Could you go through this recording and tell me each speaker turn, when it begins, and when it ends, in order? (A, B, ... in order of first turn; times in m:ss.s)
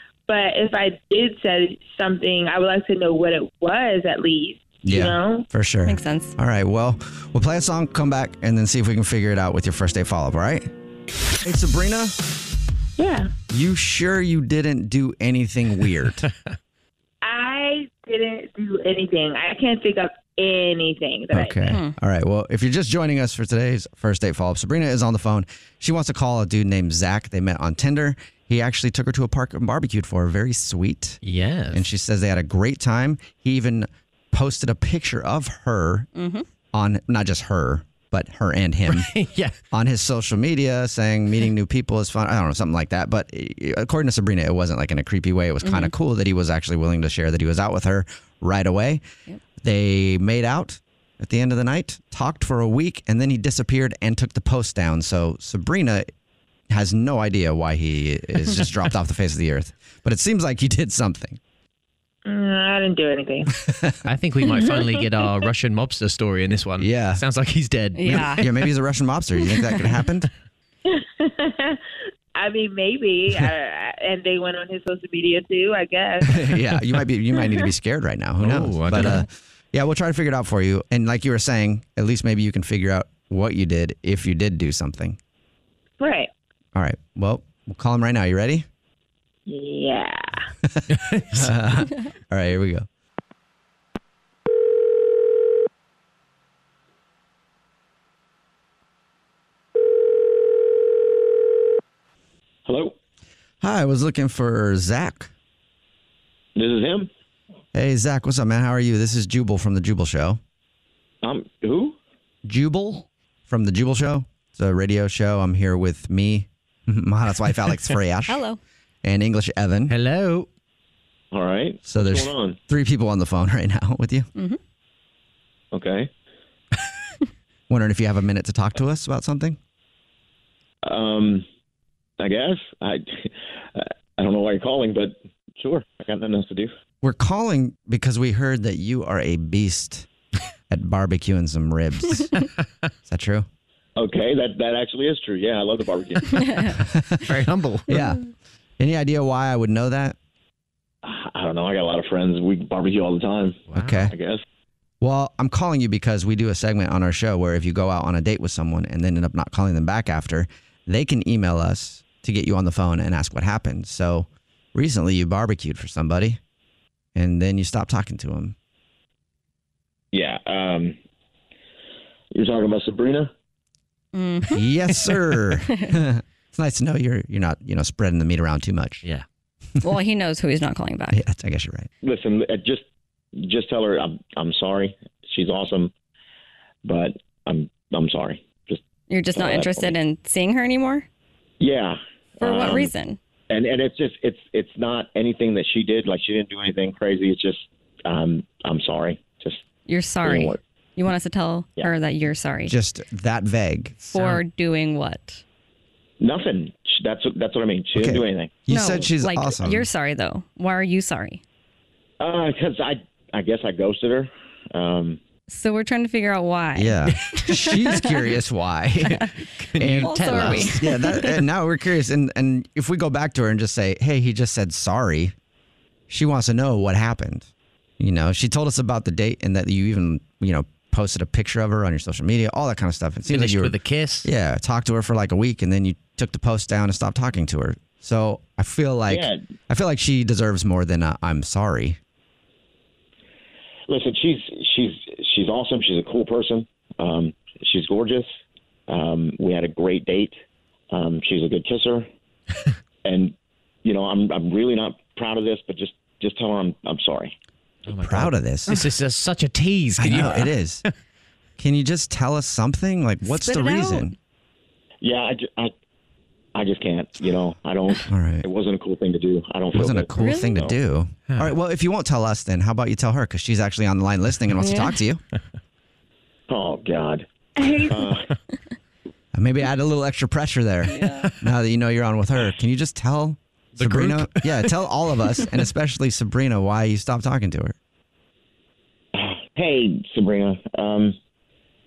0:00.3-0:05.5 A
0:04.8-0:10.7 B
0:05.8-0:06.3 C
0:11.4-0:12.1 B
0:13.0-0:13.3 A
0:13.5-0:16.2 B
0:17.2-0:21.7 A
0:21.3-0:31.2 B
0:21.7-0:21.9 C
0:31.2-0:31.8 D
0:31.7-0:36.1 B
0:36.2-0:36.4 C
0:36.7-0:39.1 B
0:38.9-0:39.5 D
0:39.7-0:49.0 B
0:45.6-0:45.9 C
0:49.6-0:56.1 B
0:56.7-1:01.4 B
1:02.2-1:03.5 A
1:03.7-1:04.0 B
1:04.0-1:08.4 D
1:04.4-1:05.5 A
1:06.8-1:07.2 B
1:08.0-1:08.4 C
1:08.0-1:10.3 B
1:09.5-1:09.8 C
1:10.8-1:11.8 A
1:12.3-1:16.6 A
1:16.2-1:25.2 B
1:18.4-1:19.2 D
1:26.0-1:26.3 A
1:26.7-1:28.6 B
1:29.5-1:30.4 A
1:30.6-1:32.9 B
1:30.9-1:31.5 D
1:42.6-1:42.9 E
1:43.6-1:45.3 B
1:46.6-1:47.1 E
1:47.7-1:50.4 B
1:51.2-1:52.0 E
1:52.4-1:58.4 B
1:58.3-1:58.6 C
1:59.0-1:59.9 B
1:59.9-2:00.5 D
2:01.3-2:02.6 E
2:01.8-2:04.3 B
2:05.7-2:06.1 E
2:07.7-2:09.6 B
2:10.8-2:11.4 E
2:12.2-2:16.7 E
2:17.0-2:20.1 B
2:20.7-2:22.3 B
2:23.0-2:23.5 B
2:24.0-2:26.5 E
2:26.4-2:26.7 C
2:26.8-2:28.2 B
2:27.2-2:28.0 D
2:28.8-2:30.2 B
2:31.0-2:34.4 E
2:33.7-2:34.1 B
2:33.7-2:34.1 D
2:35.0-2:46.4 B
2:47.1-2:48.5 B
2:50.1-2:51.0 E
2:52.3-2:53.3 E
2:54.1-2:54.6 C
2:54.5-2:59.0 B
2:59.8-3:01.2 C
3:01.1-3:01.9 B
3:02.0-3:02.8 E
3:03.4-3:05.9 E
3:06.8-3:08.8 E
3:09.1-3:11.1 C
3:09.3-3:10.0 E
3:11.6-3:12.9 E
3:12.4-3:13.2 C
3:13.5-3:19.6 E
3:19.9-3:22.7 C
3:20.2-3:20.6 E
3:22.6-3:24.3 B
3:24.1-3:25.4 C
3:26.2-3:28.6 E
3:27.9-3:29.9 B
3:28.7-3:31.4 C
3:32.2-3:35.2 E
3:35.5-3:38.2 C
3:36.7-3:39.2 B
3:39.6-3:41.0 D
3:39.8-3:45.3 B
3:40.0-3:41.4 C
3:46.1-3:47.5 B
3:48.0-4:02.0 B
3:53.3-3:54.3 D
3:59.1-3:59.4 E
4:03.9-4:08.3 E
4:08.9-4:10.4 E
4:10.9-4:12.1 E
4:13.0-4:17.3 E
4:17.8-4:20.5 D
4:18.0-4:18.8 B
4:20.0-4:20.8 B
4:21.6-4:24.1 B
4:23.2-4:24.1 C
4:25.0-4:25.7 E
4:26.5-4:30.7 E
4:28.1-4:28.5 B
4:29.7-4:35.2 B
4:30.2-4:30.6 C
4:31.3-4:31.5 D
4:34.6-4:35.0 C
4:36.5-4:37.3 E
4:37.8-4:38.3 E
4:39.3-4:47.8 B
4:40.9-4:41.2 C
4:43.8-4:44.7 D
4:49.1-4:51.2 E